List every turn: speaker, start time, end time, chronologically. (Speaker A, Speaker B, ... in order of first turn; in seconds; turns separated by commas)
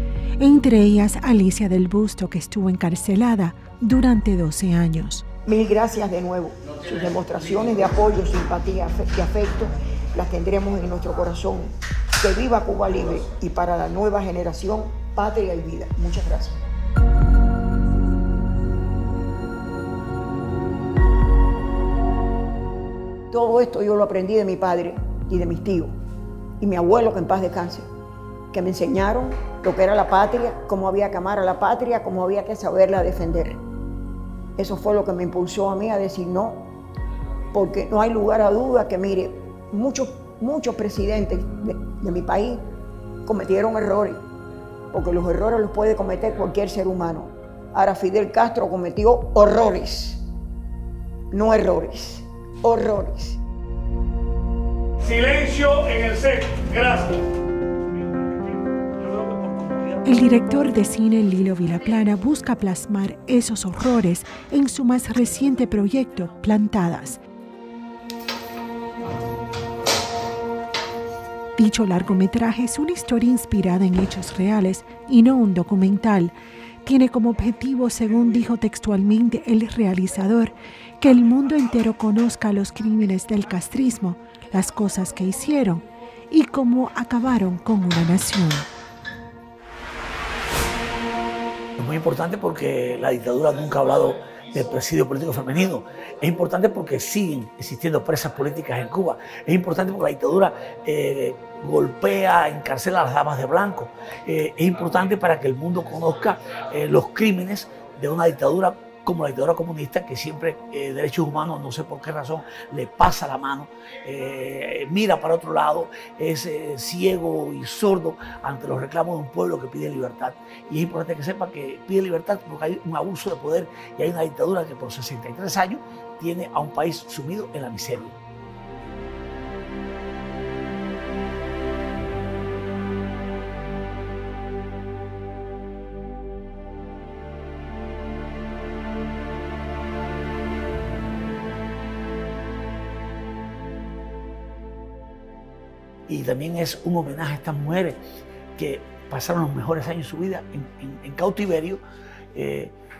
Speaker A: 0.4-5.2, Speaker B: 5.5-16.6, Speaker B: 23.3-25.9, Speaker B: 26.6-27.9, Speaker B: 28.5-33.6, Speaker B: 34.6-36.6, Speaker B: 37.5-42.6, Speaker B: 43.2-44.2, Speaker B: 44.9-50.2, Speaker B: 51.3-53.4, Speaker C: 55.1-57.2, Speaker D: 55.4-55.8, Speaker C: 59.1-60.0, Speaker A: 60.0-67.2, Speaker A: 71.5-88.7, Speaker D: 91.8-128.2, Speaker D: 146.1-148.0, Speaker D: 148.6-151.8, Speaker D: 152.3-152.7